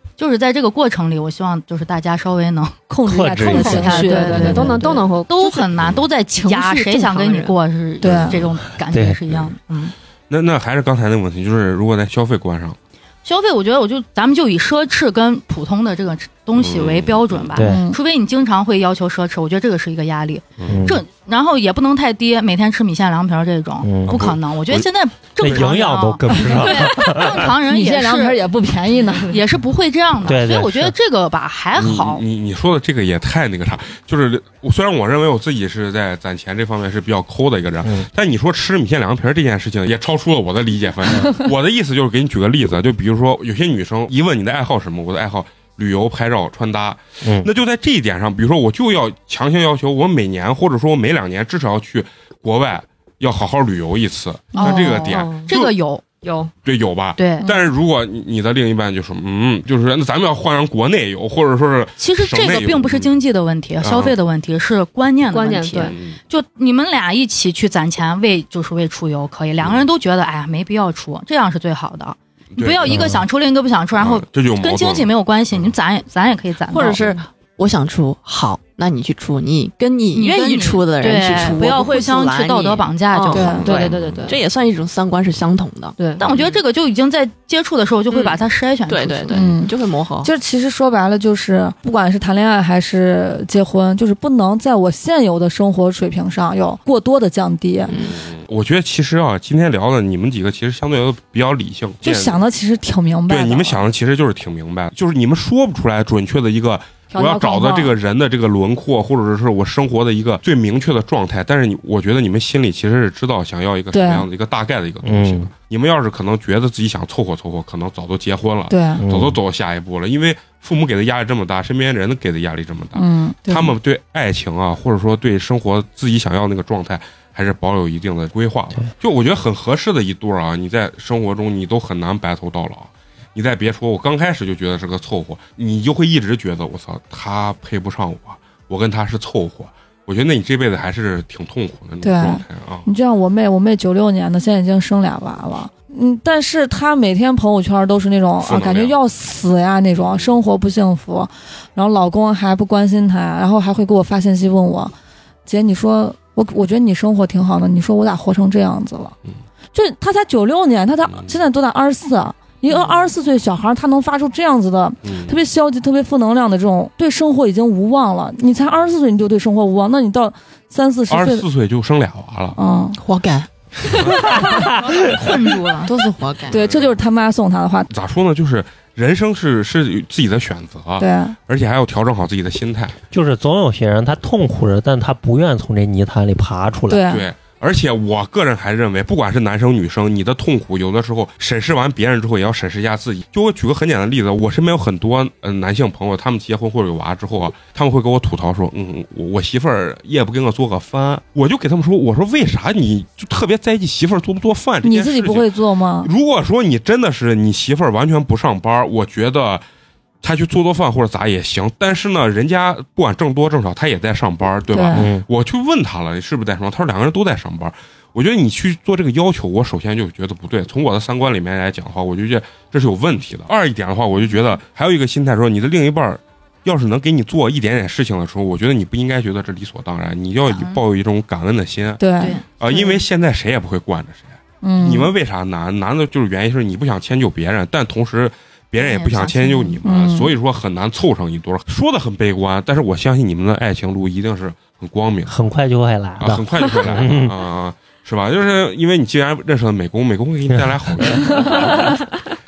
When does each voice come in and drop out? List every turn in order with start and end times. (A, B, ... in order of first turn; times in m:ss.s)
0:00.2-0:02.8 A
0:02.9-0:05.0 B
0:03.0-0:04.8 C
0:03.4-0:10.0 A
0:03.5-0:05.6 D
0:05.8-0:06.0 E
0:06.4-0:07.5 D
0:08.0-0:08.4 B
0:08.0-0:08.4 E
0:08.9-0:09.2 C
0:10.3-0:12.8 E
0:13.2-0:28.5 A
0:16.6-0:17.6 E
0:17.6-0:17.8 C
0:17.6-0:18.0 B
0:20.6-0:20.9 E
0:20.7-0:21.0 C
0:23.8-0:24.2 C
0:24.1-0:24.9 E
0:25.4-0:27.5 C
0:25.4-0:25.7 E
0:27.7-0:29.4 B
0:29.2-0:32.2 A
0:30.2-0:30.9 C
0:31.8-0:55.7 E
0:47.2-0:47.5 C
0:54.6-0:56.0 A
0:54.6-0:55.5 D
0:56.2-0:56.5 D
0:56.6-1:03.1 E
0:57.2-0:57.5 A
1:02.0-1:17.1 A
1:03.8-1:04.2 E
1:05.3-1:06.0 D
1:05.8-1:06.2 E
1:09.6-1:09.9 E
1:12.5-1:13.1 E
1:12.9-1:13.2 C
1:14.0-1:15.7 E
1:16.7-1:26.6 F
1:20.1-1:23.8 A
1:23.4-1:23.8 B
1:23.6-1:24.4 D
1:23.6-1:24.4 E
1:26.2-1:29.4 A
1:28.1-1:30.3 F
1:29.3-1:37.9 B
1:37.9-1:38.2 F
1:38.0-1:42.4 E
1:42.0-1:43.8 B
1:43.3-2:22.9 E
1:47.1-1:47.9 B
1:53.9-1:54.3 B
1:55.0-1:55.5 C
1:58.7-1:59.0 B
1:59.0-1:59.4 C
2:03.0-2:03.7 B
2:22.0-2:34.9 B
2:28.4-2:29.0 E
2:30.0-2:30.4 E
2:35.5-2:39.1 B
2:39.7-2:51.4 B
2:41.1-2:41.4 E
2:45.0-2:45.4 E
2:51.1-2:52.6 E
2:52.6-2:53.0 B
2:53.0-2:54.1 F
2:54.4-2:55.0 C
2:54.8-2:55.9 A
2:55.8-2:56.6 F
2:56.5-2:57.0 E
2:56.5-2:57.9 B
2:57.9-3:03.0 E
3:01.0-3:01.4 B
3:03.1-3:07.0 C
3:06.9-3:07.2 B
3:07.1-3:29.6 E
3:24.8-3:26.1 B
3:30.2-4:05.4 E
3:34.7-3:35.1 B
3:35.0-3:35.2 C
3:50.5-3:50.8 A
3:52.0-3:52.7 B
3:52.2-3:52.5 A
3:54.6-3:55.1 B
3:58.8-3:59.8 A
3:59.8-4:00.3 B
4:05.3-4:07.3 C
4:06.2-4:11.9 E